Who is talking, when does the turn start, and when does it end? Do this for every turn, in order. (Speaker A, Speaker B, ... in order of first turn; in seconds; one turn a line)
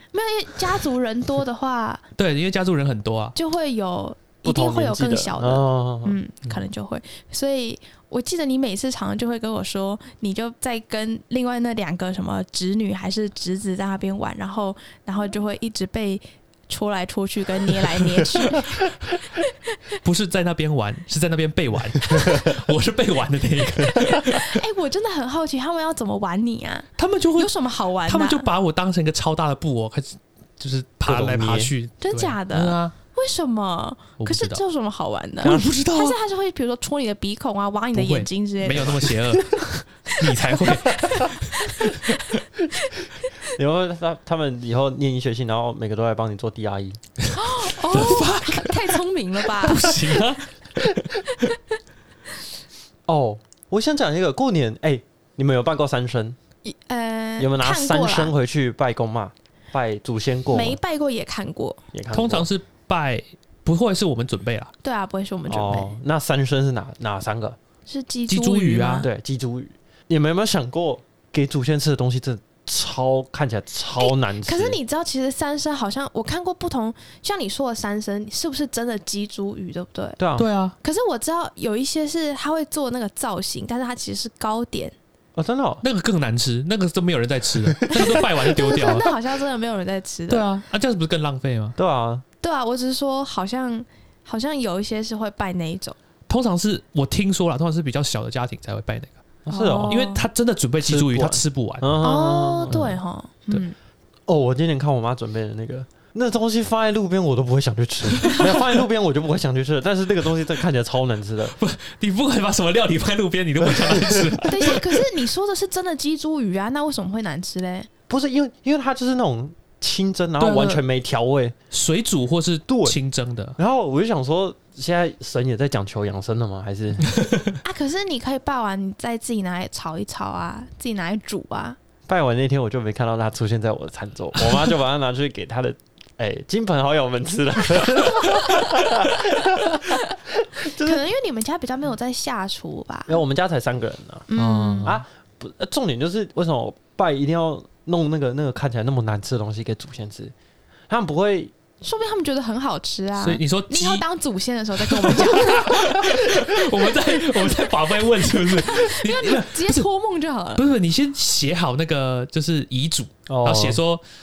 Speaker A: 0.1-2.0
Speaker B: 2.1-3.3
Speaker A: 3.3-19.5
Speaker C: 4.4-6.2
Speaker B: 20.0-24.6
Speaker A: 23.8-28.5
Speaker B: 27.0-32.9
Speaker C: 31.0-31.7
Speaker A: 32.0-39.4
Speaker B: 34.2-34.6
Speaker B: 35.4-36.2
Speaker B: 37.9-42.1
Speaker A: 40.1-43.3
Speaker C: 43.4-47.0
Speaker B: 47.2-51.3
Speaker A: 47.3-50.2
Speaker C: 53.1-56.4
Speaker A: 56.6-58.3
Speaker C: 57.4-60.8
Speaker A: 60.5-61.8
Speaker C: 61.9-62.5
Speaker B: 62.1-64.7
Speaker A: 64.8-66.0
Speaker C: 65.5-67.6
Speaker A: 67.9-69.1
Speaker B: 68.3-69.1
Speaker C: 69.0-74.8
Speaker A: 74.0-80.2
Speaker C: 80.2-80.5
Speaker B: 80.4-80.8
Speaker A: 80.8-85.0
Speaker C: 85.3-85.8
Speaker B: 85.8-89.2
Speaker C: 87.9-88.3
Speaker A: 87.9-90.5
Speaker B: 90.3-91.8
Speaker C: 91.8-92.2
Speaker A: 92.4-96.0
Speaker B: 96.3-99.2
Speaker C: 99.4-100.0
Speaker A: 99.5-100.2
Speaker B: 99.8-102.0
Speaker C: 100.8-102.9
Speaker A: 102.0-103.8
Speaker B: 102.7-103.0
Speaker C: 104.3-111.5
Speaker B: 111.6-114.8
Speaker C: 113.6-114.7
Speaker A: 114.4-117.9
Speaker C: 118.1-121.5
Speaker B: 120.4-120.8
Speaker B: 121.7-123.6
Speaker C: 122.7-123.0
Speaker C: 123.6-127.2
Speaker B: 127.1-127.5
Speaker A: 127.6-131.8
Speaker C: 132.1-141.0
Speaker A: 138.1-138.9
Speaker A: 139.9-140.2
Speaker A: 140.8-143.2
Speaker C: 143.1-144.3
Speaker A: 144.3-144.9
Speaker B: 144.3-145.0
Speaker C: 144.8-150.3
Speaker C: 150.9-151.5
Speaker A: 151.8-157.2
Speaker B: 153.2-154.1
Speaker B: 154.8-159.9
Speaker A: 158.3-160.7
Speaker B: 160.6-164.0
Speaker C: 163.3-163.8